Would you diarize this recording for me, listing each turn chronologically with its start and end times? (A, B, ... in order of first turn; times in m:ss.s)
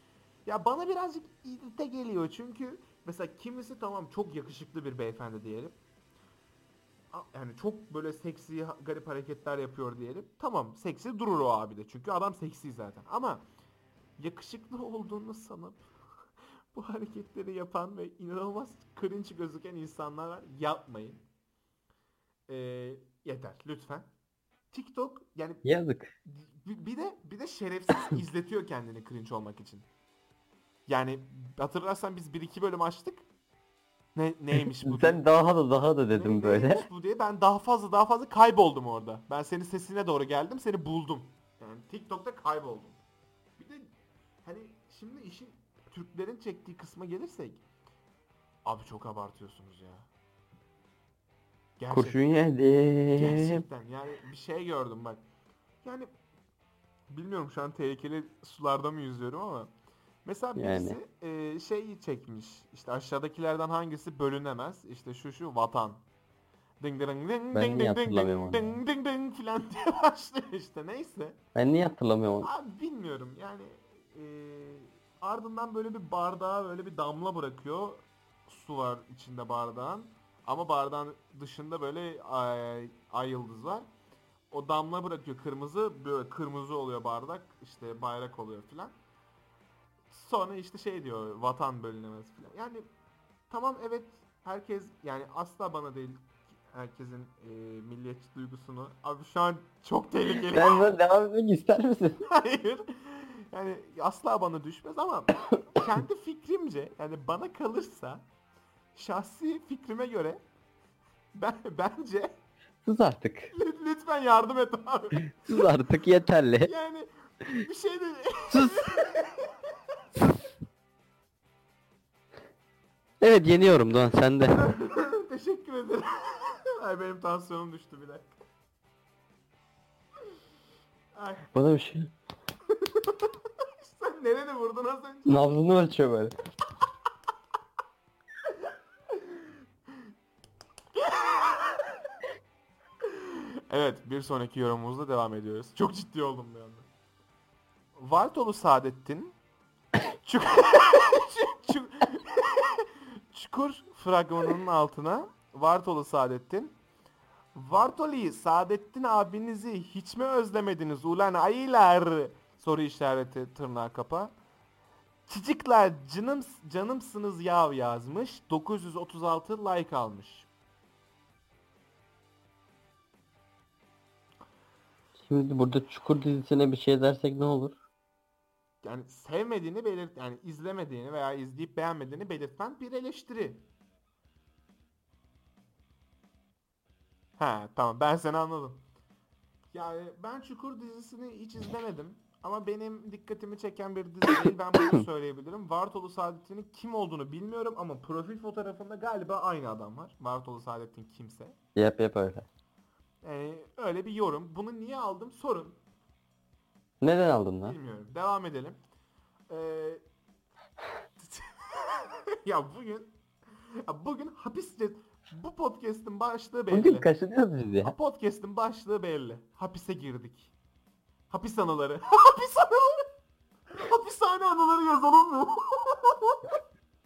0:00.4-0:05.8 A
0:07.1-0:13.4 A
0:14.2-0:15.8 A
0:16.7-0:21.2 A
0:22.5-0:24.1 A
0:24.7-0:25.6 A
0:25.6-0:26.1 B
0:26.2-0:29.8 A
0:30.9-0:33.2 A
0:34.1-0:35.2 A
0:34.8-0:36.9 B
0:36.1-0:43.0 A
0:43.6-0:47.6 A
0:48.6-0:50.1 A
0:51.8-0:52.2 A
0:51.9-0:53.6 B
0:53.1-0:55.2 A
0:55.8-0:56.1 A
0:57.1-0:59.7 A
1:00.2-1:06.0 A
1:00.6-1:01.0 B
1:06.8-1:11.4 A
1:07.5-1:08.8 B
1:11.5-1:12.5 B
1:12.4-1:23.8 A
1:24.5-1:28.9 A
1:30.1-1:32.8 A
1:33.5-1:36.2 A
1:36.7-1:40.9 A
1:40.5-1:42.2 B
1:42.3-1:48.2 A
1:48.9-1:50.4 A
1:51.4-1:52.3 A
1:52.8-1:53.5 B
1:53.5-1:55.7 A
1:55.4-1:56.7 B
1:56.6-1:59.5 A
1:58.5-1:58.9 B
2:03.2-2:04.7 B
2:04.6-2:08.3 A
2:11.2-2:11.5 A
2:11.5-2:12.1 B
2:12.7-2:15.5 A
2:15.2-2:16.3 B
2:19.1-2:19.4 A
2:21.0-2:22.0 A
2:23.0-2:26.8 A
2:27.9-2:29.3 A
2:30.1-2:36.7 A
2:37.5-2:44.3 A
2:45.3-2:50.5 A
2:55.2-2:57.8 B
2:58.8-3:03.6 A
3:07.4-3:08.8 A
3:09.7-3:21.6 A
3:21.7-3:22.4 B
3:23.2-3:25.8 A
3:27.0-3:27.8 B
3:27.6-3:28.8 A
3:29.5-3:30.0 A
3:31.2-3:33.1 A
3:33.8-3:37.1 A
3:36.7-3:37.9 B
3:37.8-3:40.5 A
3:41.3-3:43.0 A
3:43.8-3:46.5 A